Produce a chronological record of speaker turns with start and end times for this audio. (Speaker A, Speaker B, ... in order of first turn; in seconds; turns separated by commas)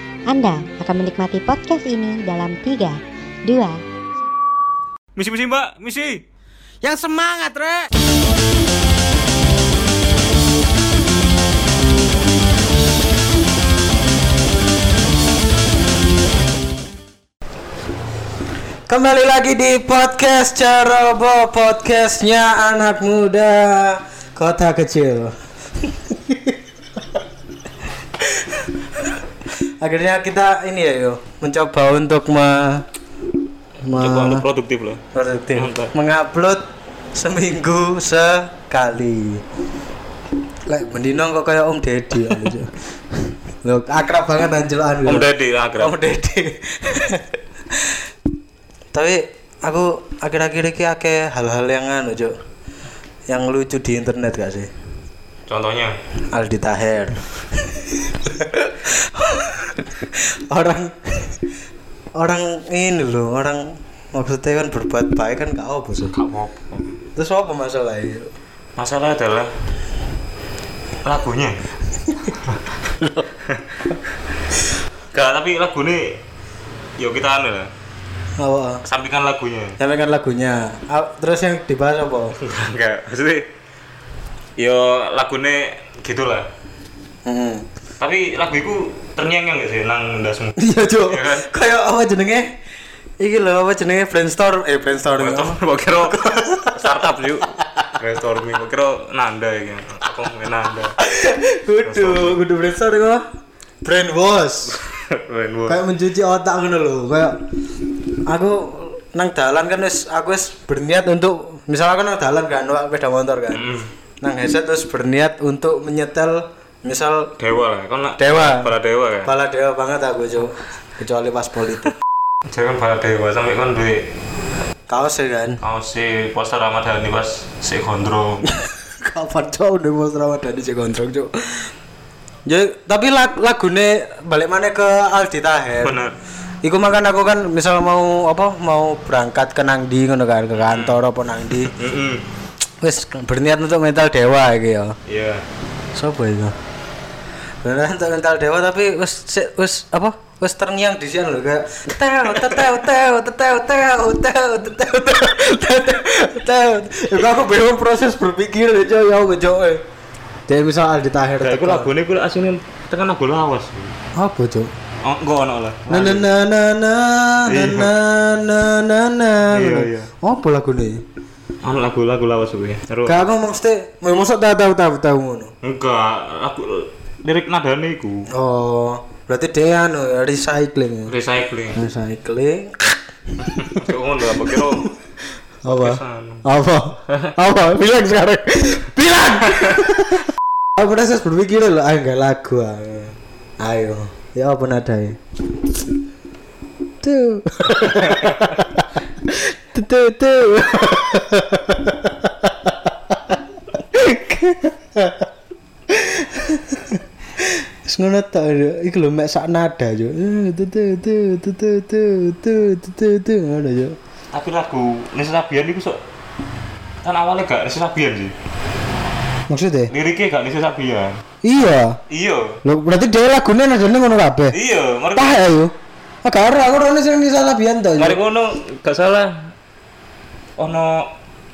Speaker A: 0.3-3.8, Speaker B: 5.2-6.2, Speaker C: 6.8-7.9, Speaker C: 18.9-26.6, Speaker C: 28.2-29.2, Speaker C: 29.8-32.9, Speaker C: 33.9-34.5, Speaker B: 34.0-35.0, Speaker C: 35.1-36.6, Speaker B: 35.5-35.9, Speaker C: 37.1-39.4, Speaker C: 40.7-48.0, Speaker B: 45.0-46.0, Speaker C: 48.9-52.4, Speaker C: 53.3-54.7, Speaker B: 55.5-56.0, Speaker C: 56.3-61.4, Speaker C: 62.1-66.2, Speaker B: 66.1-67.0, Speaker C: 67.2-68.3, Speaker B: 68.8-69.5, Speaker B: 71.0-71.7, Speaker B: 73.4-74.0, Speaker B: 75.1-76.2, Speaker B: 77.0-77.7, Speaker C: 78.4-78.8, Speaker B: 78.8-79.8, Speaker C: 79.8-82.4, Speaker B: 82.4-83.5, Speaker B: 84.6-86.5, Speaker C: 87.2-87.7, Speaker B: 88.0-91.5, Speaker C: 90.6-92.5, Speaker C: 93.2-96.9, Speaker B: 95.2-101.0, Speaker C: 101.0-103.2, Speaker B: 101.8-102.4, Speaker C: 103.8-104.8, Speaker B: 104.8-105.8, Speaker C: 105.7-107.4, Speaker C: 108.3-113.7, Speaker B: 113.5-113.9, Speaker C: 114.2-117.3, Speaker B: 117.4-119.3, Speaker C: 118.2-118.7, Speaker C: 119.2-121.9, Speaker B: 122.5-124.1, Speaker C: 124.9-125.6, Speaker B: 125.6-128.5, Speaker C: 128.5-131.7, Speaker C: 132.5-136.0, Speaker B: 135.8-136.1, Speaker C: 136.6-141.8, Speaker B: 140.6-141.0, Speaker B: 141.7-142.2, Speaker C: 142.8-145.0, Speaker B: 145.1-145.4, Speaker C: 145.9-146.6, Speaker C: 147.6-159.8, Speaker C: 160.5-161.9, Speaker B: 161.4-163.9, Speaker C: 164.2-164.7, Speaker B: 165.0-166.3, Speaker C: 165.9-171.0, Speaker B: 167.5-167.9, Speaker B: 169.5-170.1, Speaker B: 171.6-173.2, Speaker C: 173.1-175.5, Speaker B: 175.6-178.3, Speaker C: 178.3-181.1, Speaker B: 181.1-181.8, Speaker C: 181.7-183.9, Speaker B: 183.4-184.9, Speaker C: 184.5-184.9, Speaker B: 185.7-186.5, Speaker C: 185.7-195.2, Speaker B: 187.1-187.3, Speaker C: 197.0-205.3, Speaker C: 205.9-214.0, Speaker B: 214.3-216.0, Speaker B: 217.0-218.3, Speaker C: 219.5-219.9, Speaker B: 219.9-221.2, Speaker C: 221.4-222.0, Speaker B: 222.1-222.6, Speaker C: 222.6-224.6, Speaker B: 224.5-225.4, Speaker C: 225.2-228.2, Speaker B: 228.0-229.5, Speaker B: 230.6-231.1